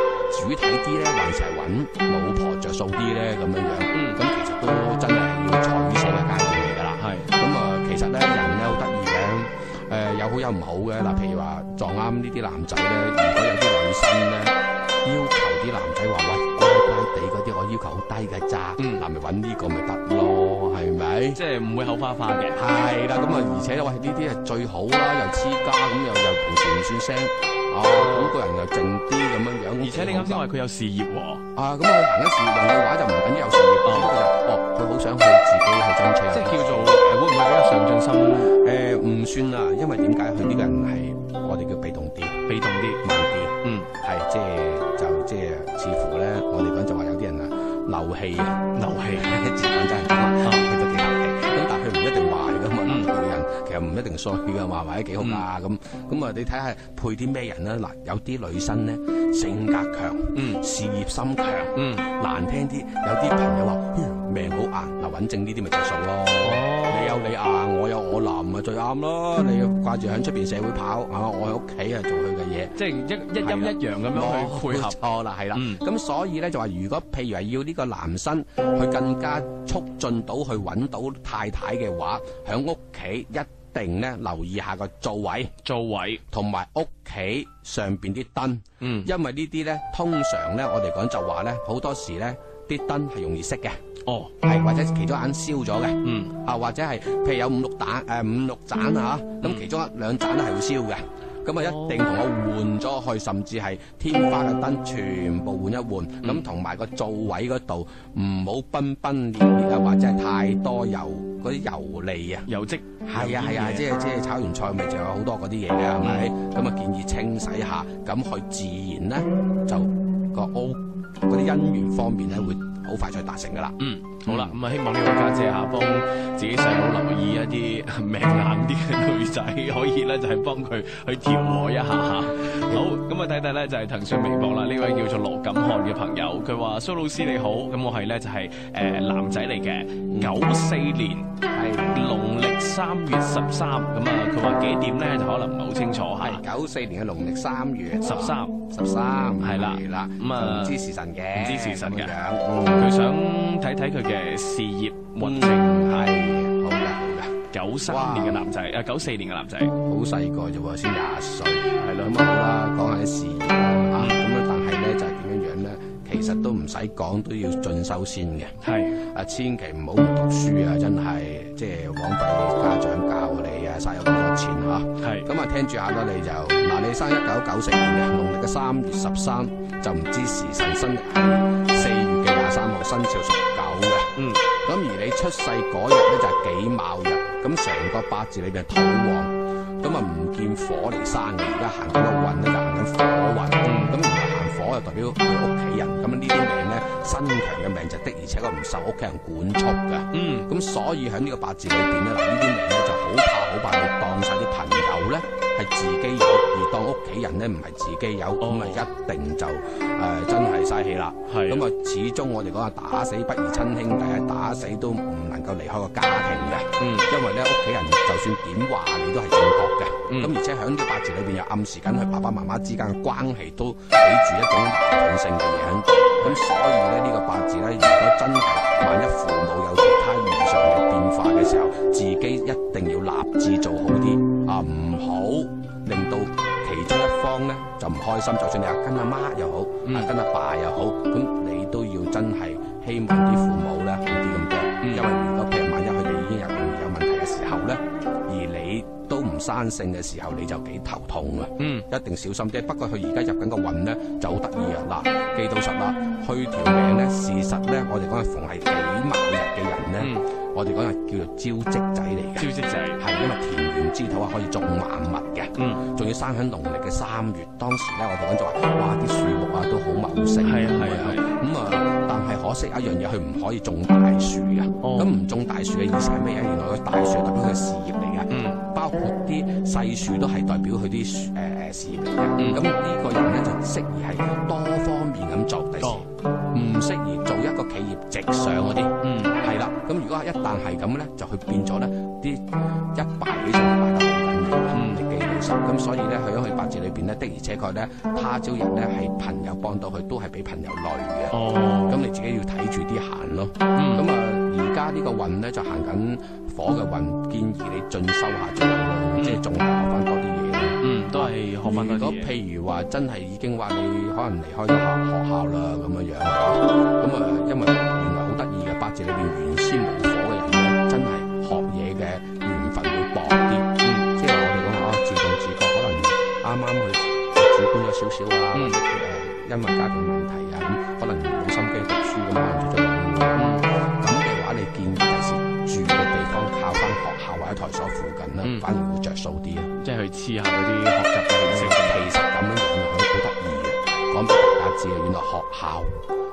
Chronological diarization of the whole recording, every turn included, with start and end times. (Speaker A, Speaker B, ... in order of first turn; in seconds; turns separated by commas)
Speaker A: 0.3-21.4, Speaker B: 3.9-4.2, Speaker B: 7.0-7.3, Speaker B: 18.8-19.0, Speaker B: 21.3-22.6, Speaker A: 22.5-30.4, Speaker B: 27.9-28.4, Speaker B: 29.8-31.4, Speaker A: 31.5-37.2, Speaker B: 33.8-34.1, Speaker B: 36.3-38.6, Speaker A: 38.4-42.4, Speaker B: 42.5-43.0, Speaker A: 43.0-72.7, Speaker B: 43.6-43.9, Speaker B: 48.7-49.3, Speaker B: 50.4-50.7, Speaker B: 52.9-53.1, Speaker B: 55.2-55.4, Speaker B: 60.3-60.6, Speaker B: 61.7-62.1, Speaker B: 66.4-67.3, Speaker B: 72.7-75.0, Speaker A: 73.4-85.5, Speaker B: 75.5-75.8, Speaker B: 85.6-86.2, Speaker A: 86.3-93.8, Speaker B: 88.8-89.1, Speaker B: 94.1-94.3, Speaker A: 94.4-112.5, Speaker B: 96.0-96.3, Speaker B: 99.4-99.7, Speaker B: 101.6-102.1, Speaker B: 112.5-113.9, Speaker A: 113.0-124.6, Speaker B: 116.0-116.3, Speaker B: 123.8-141.3, Speaker A: 140.1-140.4, Speaker A: 141.4-142.1, Speaker B: 141.9-146.4, Speaker A: 146.2-152.9, Speaker B: 148.0-148.5, Speaker B: 149.4-150.7, Speaker B: 151.3-152.2, Speaker B: 152.8-156.1, Speaker A: 155.2-158.5, Speaker B: 157.5-159.7, Speaker A: 159.8-339.7, Speaker B: 161.8-162.2, Speaker B: 168.6-169.0, Speaker B: 175.0-175.3, Speaker B: 184.2-184.4, Speaker B: 193.6-194.0, Speaker B: 200.1-200.5, Speaker B: 208.4-208.9, Speaker B: 211.3-211.6, Speaker B: 216.8-217.1, Speaker B: 220.1-220.3, Speaker B: 239.8-240.1, Speaker B: 244.8-245.1, Speaker B: 251.6-251.9, Speaker B: 260.0-260.3, Speaker B: 262.4-263.0, Speaker B: 265.5-265.8, Speaker B: 270.4-271.3, Speaker B: 274.8-275.1, Speaker B: 278.3-278.6, Speaker B: 282.4-282.6, Speaker B: 289.0-289.4, Speaker B: 294.7-295.0, Speaker B: 301.3-302.0, Speaker B: 303.7-304.1, Speaker B: 309.2-309.4, Speaker B: 310.8-312.3, Speaker B: 323.8-324.1, Speaker B: 328.5-328.8, Speaker B: 333.3-333.7, Speaker B: 339.7-342.1, Speaker A: 341.5-346.0